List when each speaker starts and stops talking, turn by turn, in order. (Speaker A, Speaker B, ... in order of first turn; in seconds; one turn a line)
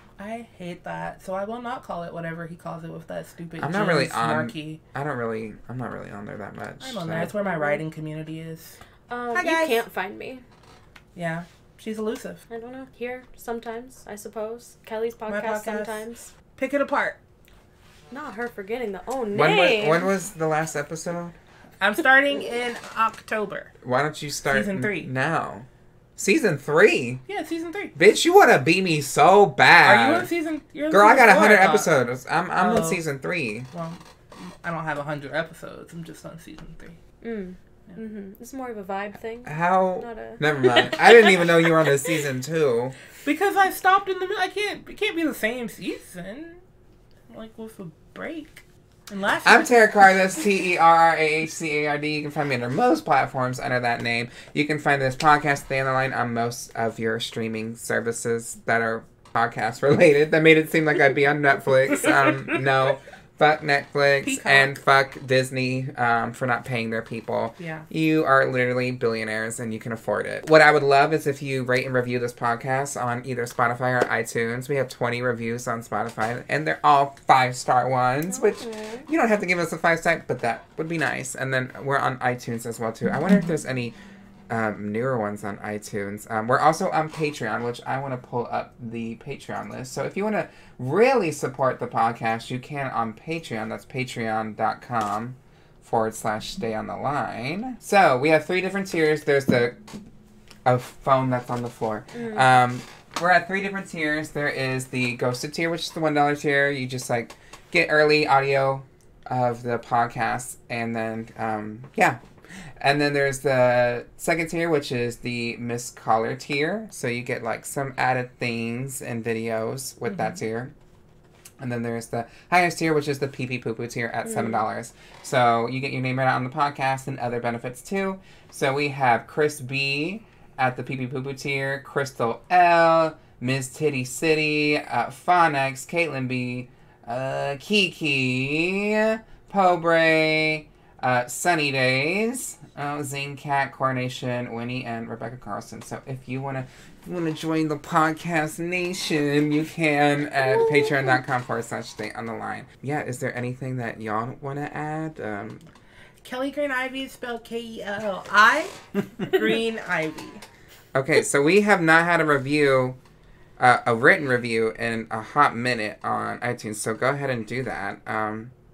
Speaker A: 0.2-4.8
Speaker B: 3.6-7.3
Speaker A: 6.8-8.8
Speaker C: 7.1-7.8
Speaker C: 9.1-10.4
Speaker A: 9.3-9.8
Speaker A: 11.1-12.4
Speaker C: 12.5-16.3
Speaker A: 15.3-16.0
Speaker A: 16.6-17.2
Speaker C: 18.1-20.1
Speaker B: 19.3-21.3
Speaker A: 21.8-23.7
Speaker B: 23.8-27.2
Speaker A: 24.5-25.1
Speaker A: 27.3-27.9
Speaker B: 27.9-30.3
Speaker A: 29.8-31.9
Speaker B: 30.9-33.7
Speaker A: 32.6-33.0
Speaker A: 33.7-37.0
Speaker C: 37.2-41.9
Speaker B: 39.4-43.0
Speaker A: 43.2-46.6
Speaker A: 47.3-49.8
Speaker B: 49.4-83.9
Speaker A: 64.2-64.8
Speaker A: 67.6-67.9
Speaker C: 78.3-79.1
Speaker B: 84.5-99.8
Speaker B: 100.7-120.7
Speaker C: 102.1-102.5
Speaker B: 121.6-155.7
Speaker C: 124.2-124.6
Speaker A: 156.2-160.4
Speaker B: 160.9-163.0
Speaker B: 163.6-168.5